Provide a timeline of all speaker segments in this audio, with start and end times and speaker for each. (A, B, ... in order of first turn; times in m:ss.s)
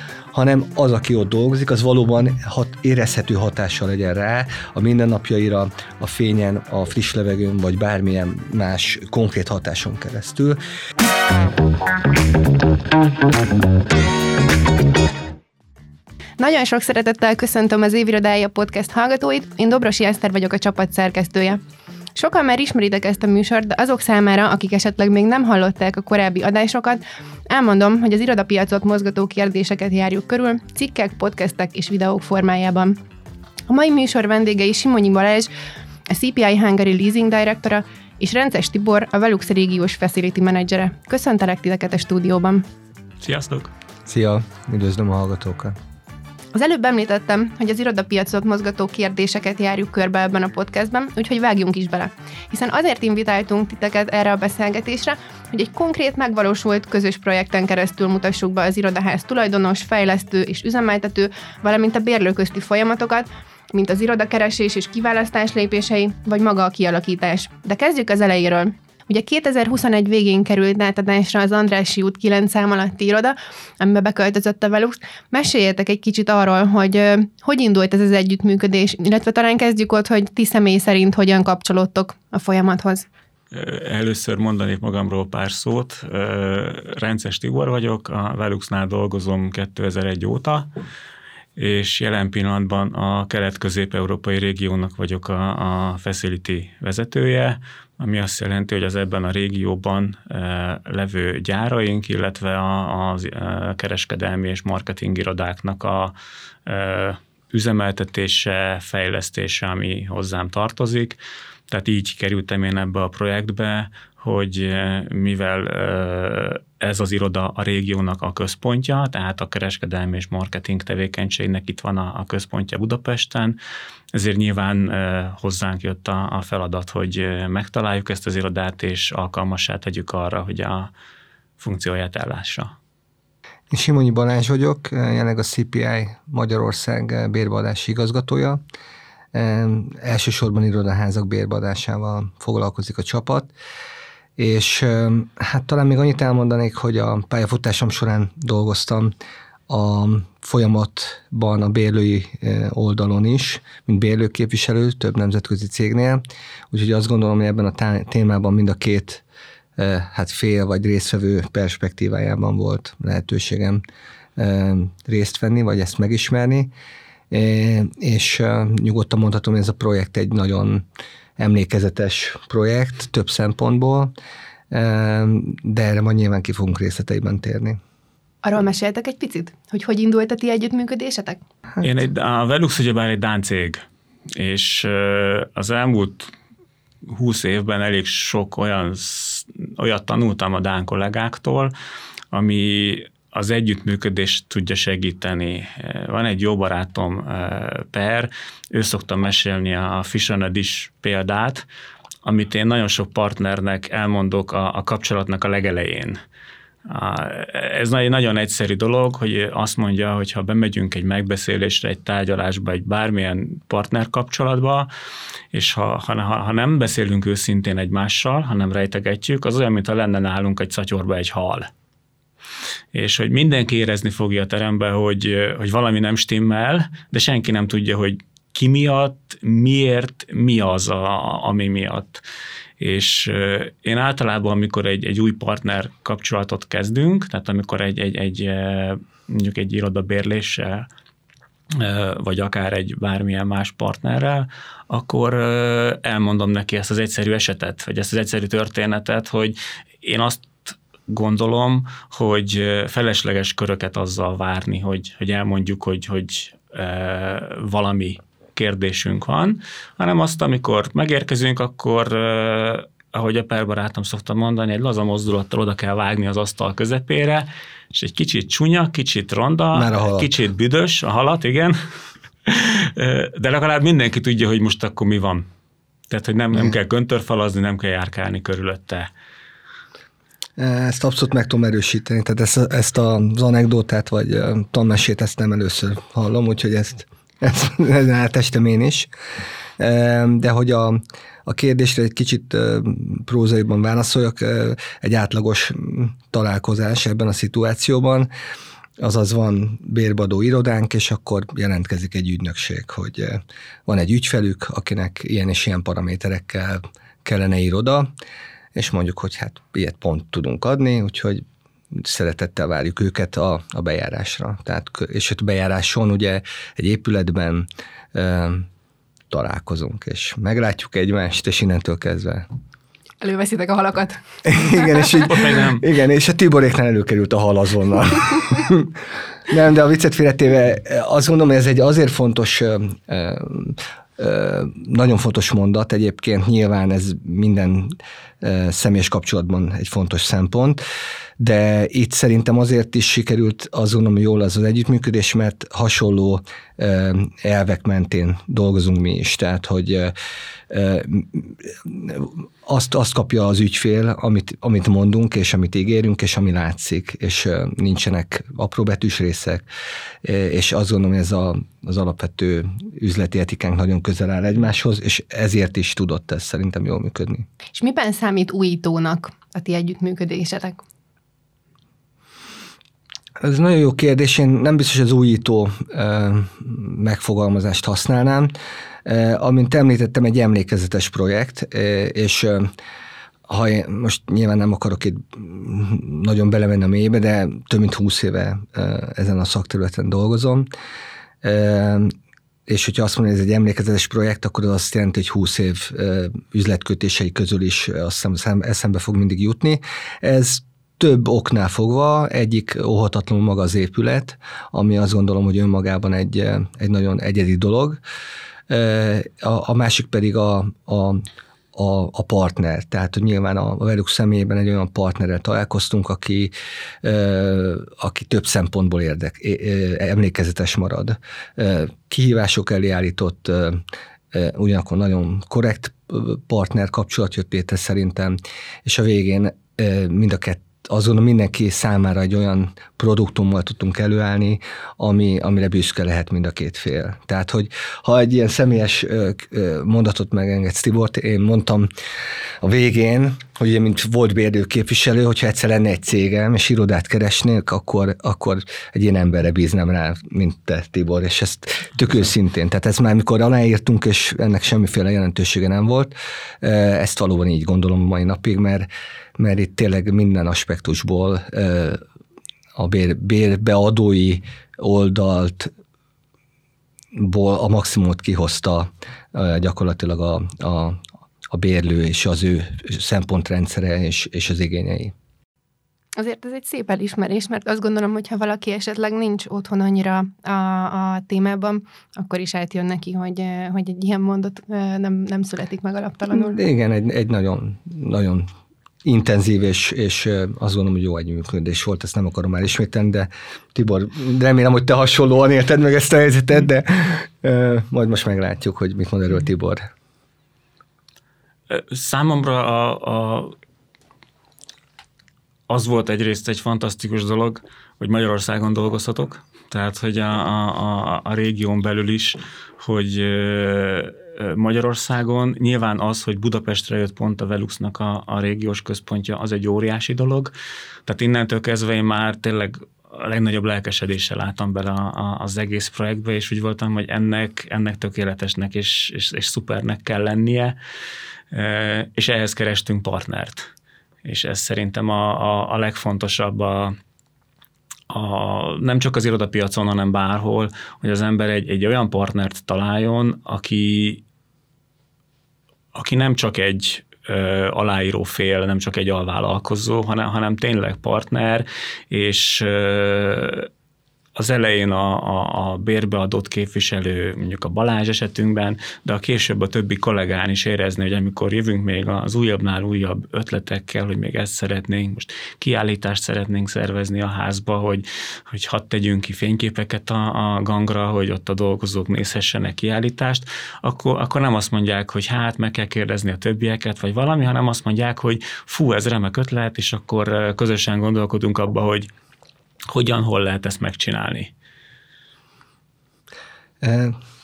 0:00.3-0:10.6 A
0:16.4-0:21.6 B
0:22.1-0:33.0 B
0:33.7-0:35.5 B
0:36.1-0:42.6 B
0:43.2-0:43.7 C
0:44.0-0:45.8 A
0:46.5-1:23.1 B
1:23.5-1:30.7 C
1:31.6-1:46.1 C
1:46.6-2:03.6 C
2:04.1-2:10.9 C
2:11.6-2:12.7 C
2:13.7-2:18.6 A
2:19.3-2:23.5 A
2:24.4-2:29.1 A
2:29.7-2:39.2 A
2:39.8-2:43.8 A
2:44.4-2:46.7 A
2:47.3-2:50.8 A
2:51.4-2:54.1 A
2:54.7-2:57.8 A
2:58.4-3:01.4 B
3:01.8-3:06.3 C
3:07.0-3:11.7 C
3:12.3-3:21.6 C
3:22.2-3:26.2 C
3:26.9-3:34.9 C
3:35.5-3:41.7 C
3:42.9-3:52.2 C
3:52.8-4:00.9 C
4:01.7-4:31.8 C
4:29.7-4:30.3 A
4:32.4-4:35.4 C
4:36.1-4:39.1 C
4:40.6-4:49.1 A
4:49.8-4:58.3 A
4:59.0-5:08.1 A
5:08.7-5:18.7 A
5:19.3-5:22.4 A
5:23.2-5:25.0 B
5:24.4-5:28.9 A
5:25.1-5:25.9 C
5:29.5-5:40.8 A
5:41.4-5:50.1 A
5:50.7-5:59.6 A
6:00.2-6:07.4 A
6:07.7-6:10.8 B
6:13.4-6:18.5 A
6:19.0-6:22.7 A
6:23.5-6:30.7 A
6:31.4-6:32.1 A
6:32.7-6:48.0 A
6:48.7-7:21.9 A
7:22.6-7:42.0 A
7:42.8-7:45.7 A
7:47.1-7:55.1 A
7:56.2-8:06.6 B
8:06.3-8:08.5 A
8:09.0-8:19.9 A
8:21.7-8:23.6 C
8:25.7-8:40.5 C
8:41.1-8:50.8 C
8:51.5-8:53.7 C
8:54.2-8:57.0 C
8:58.1-9:04.2 C
9:05.9-9:13.7 C
9:14.4-9:42.1 C
9:42.9-9:44.5 C
9:46.8-9:47.2 A